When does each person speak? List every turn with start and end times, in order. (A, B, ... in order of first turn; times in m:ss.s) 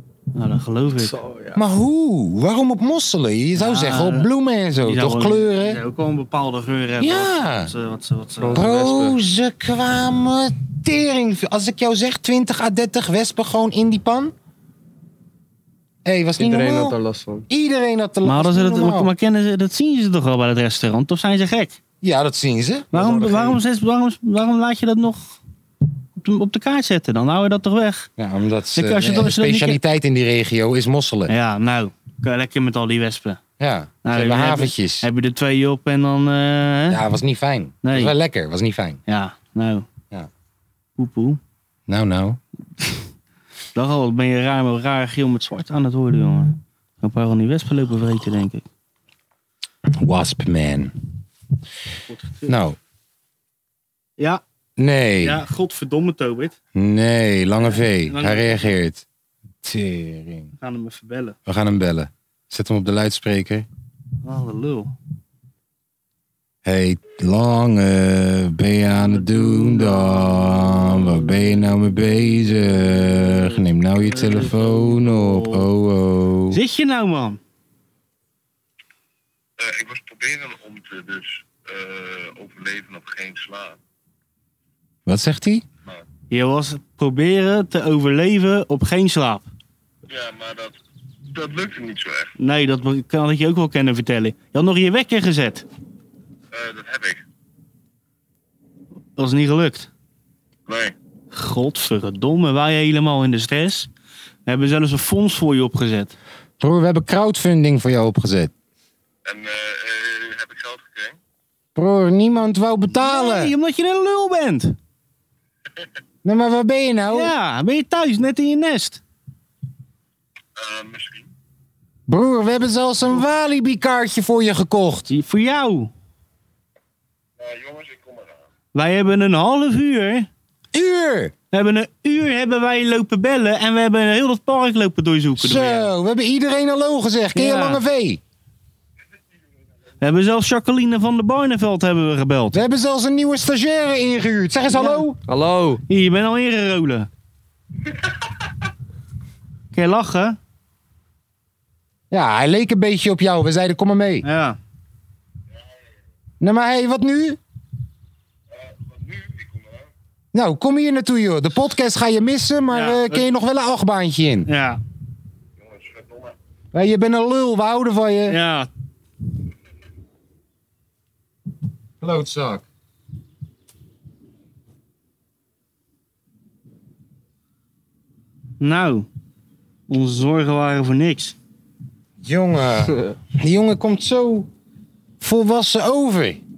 0:00.3-0:01.2 A
0:01.0-0:01.6 B
0:01.5-0:05.8 C
0:03.6-0:04.3 A
0:04.8-0:08.6 A
0:07.0-0:07.7 C
0:08.4-0:09.2 B
0:08.5-0:14.3 C
0:16.0-0:17.0 C
0:16.4-0:17.5 B
0:17.5-0:19.1 C
0:18.2-0:21.8 A
0:22.0-0:23.3 C
0:22.9-0:25.4 A
0:23.0-0:23.5 B
0:26.2-0:28.1 A
0:28.2-0:31.3 C
0:28.7-0:29.8 A
0:31.3-0:33.4 A
0:33.6-0:35.1 C
0:34.0-0:37.0 A
0:36.9-0:39.0 C
0:37.8-0:38.1 A
0:39.1-0:39.8 A
0:41.0-0:41.4 A
0:41.9-0:42.4 C
0:43.7-0:48.6 A
0:49.9-0:50.9 C
0:52.1-0:52.6 A
0:52.5-0:52.8 C
0:54.8-0:55.4 C
0:55.2-0:56.6 A
0:56.7-0:59.0 C
0:57.6-0:58.7 A
0:59.6-1:00.5 C
1:00.6-1:01.4 A
1:01.4-1:03.7 C
1:04.2-1:04.9 A
1:06.6-1:16.6 C
1:08.9-1:11.6 A
1:14.0-1:15.7 A
1:16.5-1:17.4 A
1:19.6-1:23.8 D
1:25.0-1:25.6 C
1:26.3-1:29.5 A
1:30.1-1:30.7 D
1:31.3-1:32.3 D
1:32.4-1:35.6 A
1:36.5-1:37.2 D
1:39.2-1:39.9 A
1:40.7-1:40.9 D
1:41.3-1:43.9 A
1:44.4-1:46.1 A
1:46.6-1:48.5 C
1:49.2-1:51.2 D
1:51.7-1:53.5 C
1:52.9-1:54.8 A
1:56.2-1:57.3 C
1:57.1-1:59.0 A
2:00.6-2:01.3 D
2:02.1-2:05.1 C
2:05.1-2:05.9 A
2:07.4-2:08.4 D
2:08.7-2:10.3 A
2:10.7-2:11.3 C
2:11.5-2:15.9 A
2:15.4-2:18.2 C
2:17.3-2:17.8 A
2:20.0-2:22.6 A
2:22.5-2:25.2 C
2:24.7-2:25.0 A
2:25.3-2:25.8 B
2:25.9-2:27.1 A
2:29.7-2:30.4 A
2:32.1-2:34.2 C
2:34.2-2:34.6 A
2:36.4-2:37.4 C
2:38.6-2:39.9 D
2:40.3-2:44.5 C
2:42.7-2:43.3 A
2:44.4-2:44.8 A
2:45.6-2:46.3 D
2:46.7-2:48.4 C
2:48.3-2:48.7 A
2:52.0-2:52.6 C
2:58.6-2:59.1 A
2:59.9-3:01.4 A
3:02.2-3:04.5 C
3:05.2-3:06.4 C